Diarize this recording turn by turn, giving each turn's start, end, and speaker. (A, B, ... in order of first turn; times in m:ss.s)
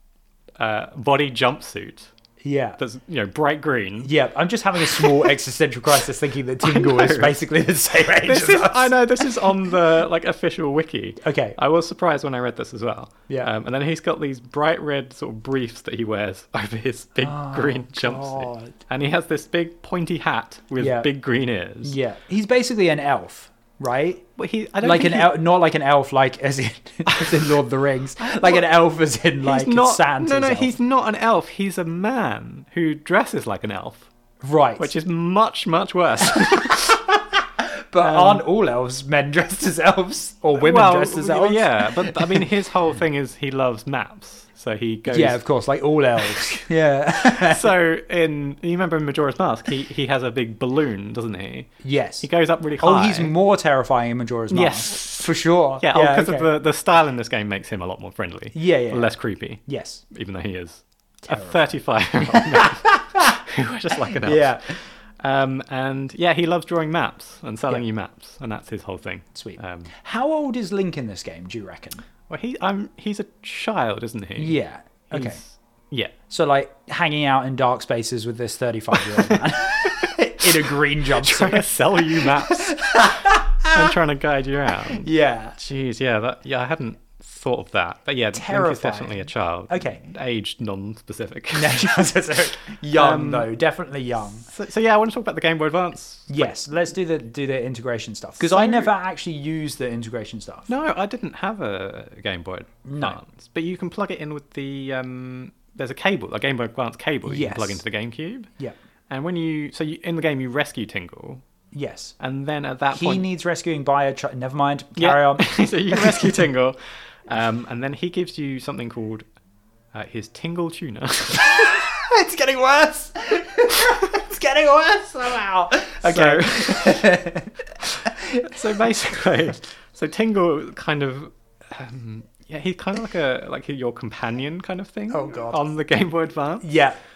0:00.6-0:02.1 A
0:02.4-0:02.8 B
0:02.8-0:04.1 A
0:04.0-0:09.4 B
0:04.8-0:05.2 A
0:06.6-0:07.4 A
0:08.2-0:22.0 A
0:11.2-0:11.6 B
0:17.2-0:18.7 B
0:20.8-0:21.1 B
0:21.8-0:24.2 B
0:24.4-0:25.4 A
0:24.8-0:30.8 B
0:27.1-0:27.5 A
0:28.2-0:28.6 A
0:29.4-0:34.1 A
0:34.4-0:34.9 B
0:34.8-0:37.0 A
0:37.6-0:42.5 B
0:38.0-0:38.4 A
0:40.6-0:45.4 A
0:45.1-0:47.7 B
0:46.4-0:46.6 A
0:47.3-0:53.3 A
0:51.8-0:52.3 B
0:52.8-0:56.5 B
0:54.5-1:09.9 A
0:58.5-0:59.1 B
0:59.6-1:00.0 B
1:01.2-1:01.6 B
1:02.3-1:03.4 B
1:04.1-1:04.8 B
1:09.3-1:12.0 B
1:12.3-1:14.6 A
1:14.4-1:15.4 B
1:15.1-1:16.1 A
1:16.3-1:24.0 B
1:19.0-1:32.1 A
1:24.8-1:25.6 B
1:28.3-1:30.0 B
1:31.5-1:34.4 B
1:32.9-1:33.5 A
1:34.2-1:36.5 A
1:36.3-1:40.7 B
1:38.4-1:38.9 A
1:40.7-1:48.5 A
1:42.8-1:43.2 B
1:47.2-1:47.8 B
1:49.1-1:51.4 A
1:51.7-1:52.1 B
1:52.2-1:53.2 A
1:52.9-1:56.4 B
1:55.0-1:59.2 A
1:59.9-2:01.9 A
2:01.4-2:08.8 B
2:06.0-2:07.3 A
2:07.8-2:16.8 A
2:15.1-2:15.6 B
2:16.6-2:17.0 B